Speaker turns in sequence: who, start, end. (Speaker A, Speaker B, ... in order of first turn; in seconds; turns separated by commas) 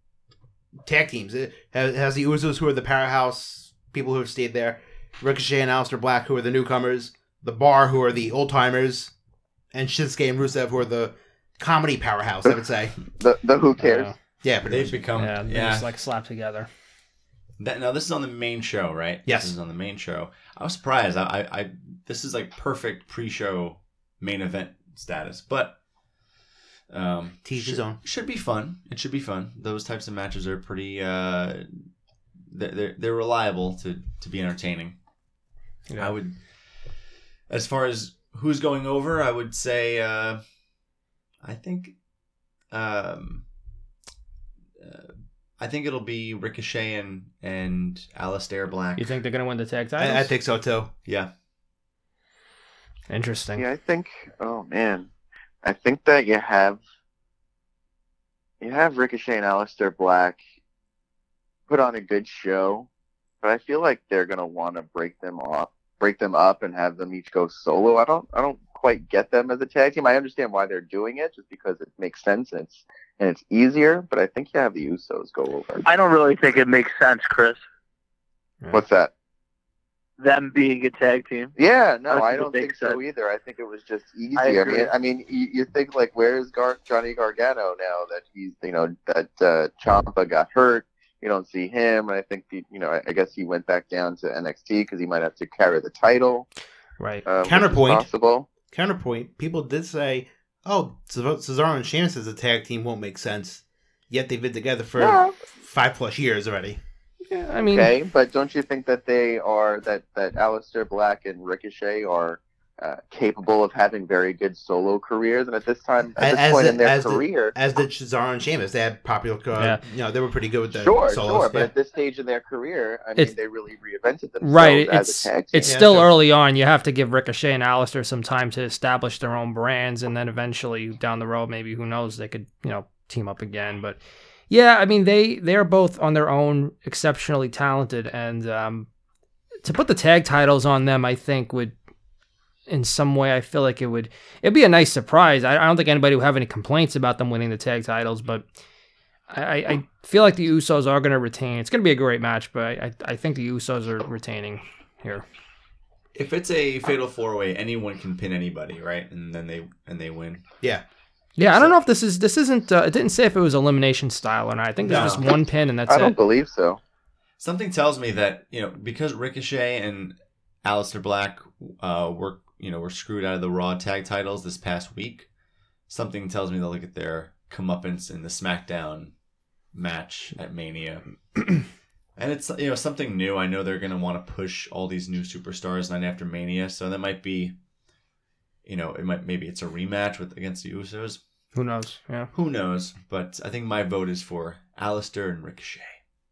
Speaker A: 0.8-9.1, Speaker A: 9.7-13.0, Speaker B: 13.1-14.1, Speaker C: 13.8-14.1, Speaker A: 14.4-15.1, Speaker D: 14.7-15.9, Speaker C: 15.2-16.7, Speaker D: 17.6-25.8, Speaker A: 19.2-19.5, Speaker D: 26.9-31.8, Speaker A: 27.4-28.0, Speaker D: 32.5-35.0, Speaker C: 35.9-36.1, Speaker D: 36.0-36.4, Speaker D: 37.5-40.4, Speaker D: 41.4-41.9, Speaker D: 42.7-43.4, Speaker D: 44.8-49.2, Speaker C: 49.0-50.3, Speaker A: 50.0-50.9, Speaker D: 51.0-51.3, Speaker C: 53.1-53.6, Speaker B: 53.6-55.1, Speaker B: 55.6-56.8, Speaker B: 58.6-60.4, Speaker B: 61.7-62.9, Speaker B: 63.4-75.8, Speaker E: 75.8-77.6, Speaker B: 78.7-79.1, Speaker E: 80.2-81.5, Speaker B: 81.5-96.5, Speaker E: 82.1-83.0, Speaker E: 84.3-84.9, Speaker C: 97.0-97.2, Speaker B: 97.2-98.5, Speaker A: 97.4-98.1, Speaker A: 98.7-106.8, Speaker B: 105.0-105.3, Speaker C: 107.3-107.9, Speaker B: 107.6-117.5, Speaker A: 116.2-121.7, Speaker B: 120.7-125.8, Speaker C: 124.4-138.9, Speaker A: 125.7-126.1, Speaker C: 139.6-141.7, Speaker C: 142.7-148.4, Speaker C: 149.3-155.2, Speaker D: 156.1-160.4, Speaker C: 161.4-166.2, Speaker A: 164.8-165.2, Speaker D: 164.9-165.3, Speaker B: 165.9-166.8, Speaker D: 167.4-175.3, Speaker D: 175.9-179.1, Speaker D: 179.7-181.0, Speaker D: 182.2-187.5, Speaker D: 188.6-191.2, Speaker C: 191.5-192.3, Speaker D: 192.3-196.0